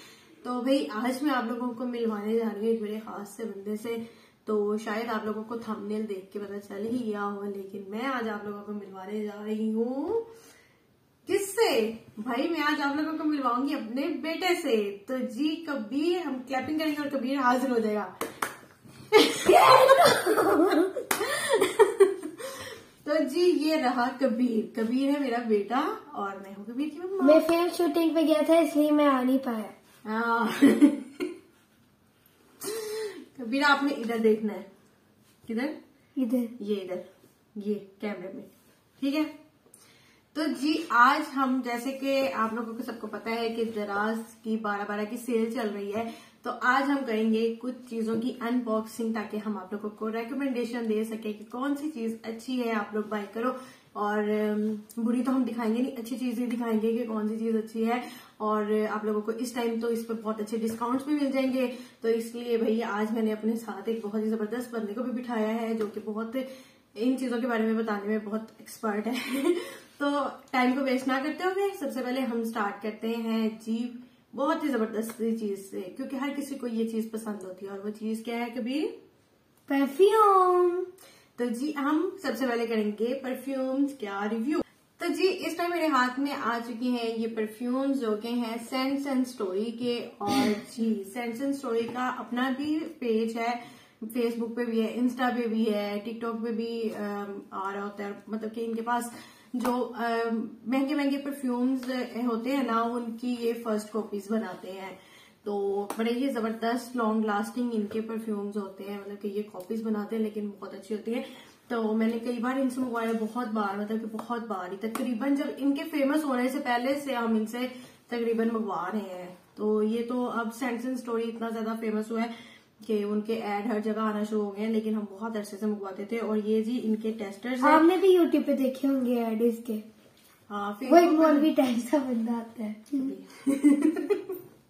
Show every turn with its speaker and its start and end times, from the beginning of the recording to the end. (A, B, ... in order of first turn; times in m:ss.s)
0:00.4-0:10.3 A
0:11.2-0:18.1 A
0:19.1-0:20.6 A
0:19.3-0:20.9 B
0:21.1-0:27.4 A
0:27.2-0:29.7 B
0:30.0-0:31.3 A
0:32.6-0:34.7 A
0:35.4-0:35.7 A
0:36.2-0:36.5 B
0:36.6-0:38.5 A
0:39.0-0:39.3 A
0:40.3-1:18.9 A
1:19.7-1:20.9 B
1:21.4-2:07.8 A
2:07.6-2:09.8 B
2:10.5-2:11.5 A
2:10.8-2:13.1 B
2:13.0-2:14.4 A